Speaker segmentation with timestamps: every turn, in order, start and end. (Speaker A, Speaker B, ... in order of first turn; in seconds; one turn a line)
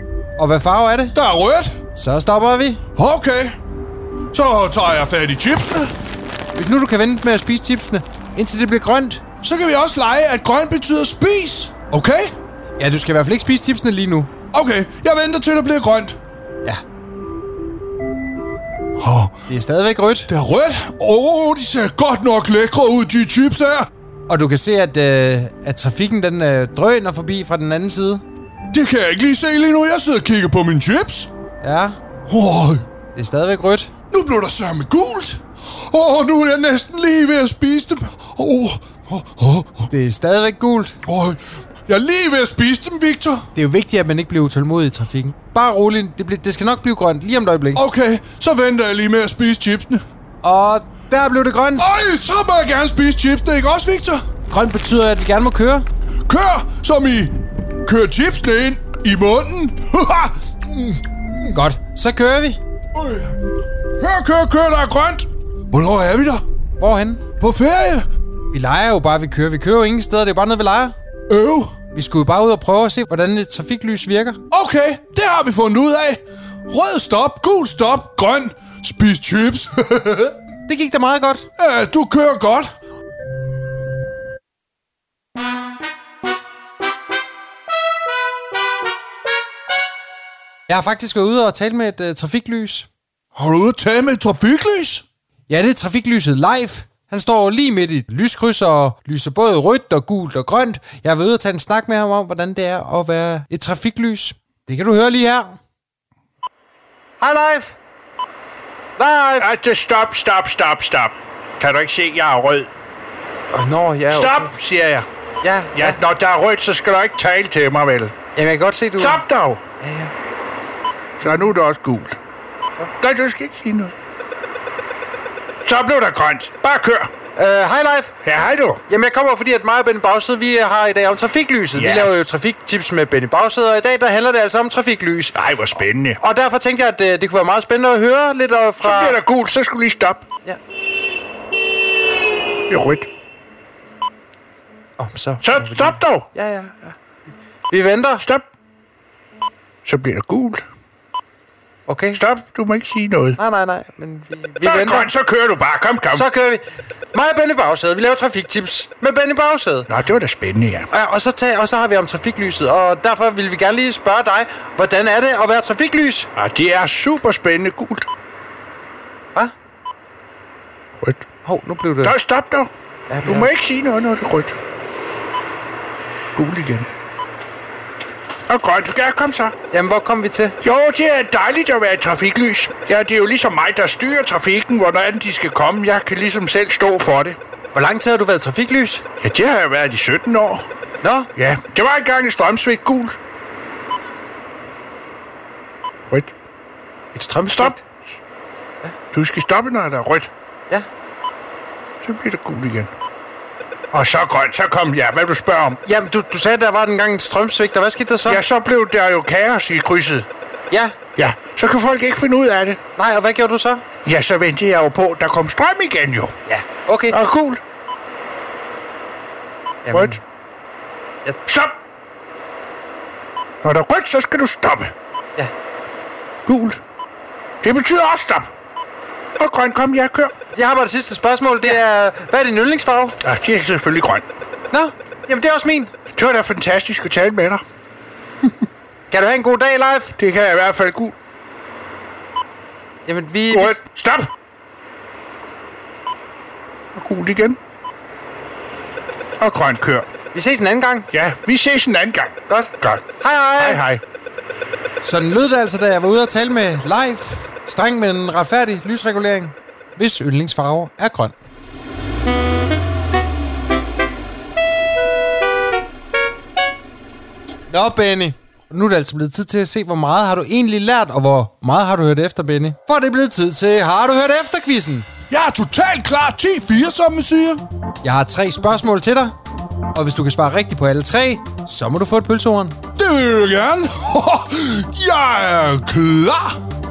Speaker A: 0.4-1.2
Speaker B: 1.1-1.8
Speaker A: 2.0-2.8
Speaker B: 3.0-3.6
Speaker B: 4.3-5.9
Speaker A: 6.5-9.2
Speaker B: 9.4-12.3
Speaker A: 12.8-14.3
Speaker B: 14.5-16.2
Speaker B: 19.0-19.4
Speaker A: 19.5-20.3
Speaker B: 20.3-23.9
Speaker A: 24.3-28.2
Speaker B: 28.7-31.3
Speaker A: 31.6-32.0
Speaker B: 32.3-32.9
Speaker A: 33.1-33.9
Speaker B: 34.1-39.9
Speaker A: 39.9-41.0
Speaker B: 41.0-43.5
Speaker A: 43.5-47.9
Speaker B: 47.8-50.0
Speaker A: 50.4-51.9
Speaker B: 51.8-54.2
Speaker A: 54.5-55.9
Speaker B: 56.3-61.5
Speaker A: 61.5-62.6
Speaker B: 62.9-63.3
Speaker B: 64.0-66.4
Speaker A: 66.8-67.3
Speaker B: 67.3-68.1
Speaker A: 68.5-71.0
Speaker B: 71.3-71.8
Speaker A: 71.9-74.4
Speaker B: 74.5-80.4
Speaker A: 80.7-81.5
Speaker B: 81.6-82.7
Speaker A: 90.7-92.9
Speaker B: 93.3-95.0
Speaker A: 95.5-105.6
Speaker A: 107.2-107.7
Speaker A: 109.0-109.5
Speaker C: 109.4-112.7
Speaker A: 113.5-114.5
Speaker C: 114.1-115.1
Speaker A: 115.4-116.0
Speaker C: 115.7-118.1
Speaker A: 118.3-119.2
Speaker C: 119.0-119.6
Speaker A: 119.8-120.1
Speaker C: 121.2-122.2
Speaker C: 123.0-124.0
Speaker C: 125.7-127.1
Speaker A: 127.4-128.1
Speaker C: 128.2-128.8
Speaker A: 128.9-135.4
Speaker C: 131.7-132.2
Speaker C: 135.3-136.2
Speaker A: 136.2-139.2
Speaker C: 138.8-140.2
Speaker C: 142.7-143.1
Speaker A: 145.0-147.0
Speaker C: 145.4-146.3
Speaker A: 147.7-148.3
Speaker C: 149.9-150.6
Speaker A: 151.9-152.2
Speaker C: 152.1-153.4
Speaker A: 153.4-155.1
Speaker C: 154.6-156.3
Speaker A: 156.1-159.9
Speaker C: 159.9-160.9
Speaker A: 160.9-166.3
Speaker C: 166.4-168.1
Speaker C: 171.0-171.3
Speaker A: 171.4-172.2
Speaker C: 172.0-172.7
Speaker A: 173.1-173.5
Speaker C: 173.2-174.6
Speaker C: 176.3-176.9
Speaker C: 178.5-179.5
Speaker A: 179.7-180.6
Speaker C: 180.6-187.4
Speaker A: 187.7-189.0
Speaker C: 189.2-190.7
Speaker A: 191.0-191.3
Speaker C: 191.4-193.2
Speaker A: 197.1-197.8
Speaker C: 197.5-197.8
Speaker C: 199.1-200.3
Speaker C: 202.0-202.9
Speaker C: 203.9-205.8
Speaker A: 205.8-208.4
Speaker C: 208.2-210.3
Speaker A: 210.7-211.0
Speaker C: 211.2-212.8
Speaker A: 213.0-213.8
Speaker C: 214.1-216.3
Speaker A: 216.5-217.2
Speaker C: 217.1-217.6
Speaker A: 219.8-220.2
Speaker C: 219.9-220.2
Speaker C: 221.5-221.8
Speaker C: 223.6-224.9
Speaker C: 226.5-226.8
Speaker C: 227.6-228.5
Speaker C: 229.4-230.3
Speaker A: 230.5-233.2
Speaker C: 233.2-234.2
Speaker A: 234.7-235.9
Speaker C: 236.2-237.6
Speaker A: 239.1-240.2
Speaker C: 240.2-241.2
Speaker A: 243.1-243.8
Speaker C: 243.5-244.3
Speaker C: 246.9-247.6
Speaker C: 249.4-250.1
Speaker A: 250.3-251.1
Speaker C: 251.1-253.1
Speaker A: 252.5-253.8
Speaker C: 253.6-254.0
Speaker A: 255.0-261.3
Speaker A: 267.7-275.1
Speaker B: 275.3-277.6
Speaker A: 278.0-279.4
Speaker A: 279.9-282.8
Speaker B: 283.0-286.6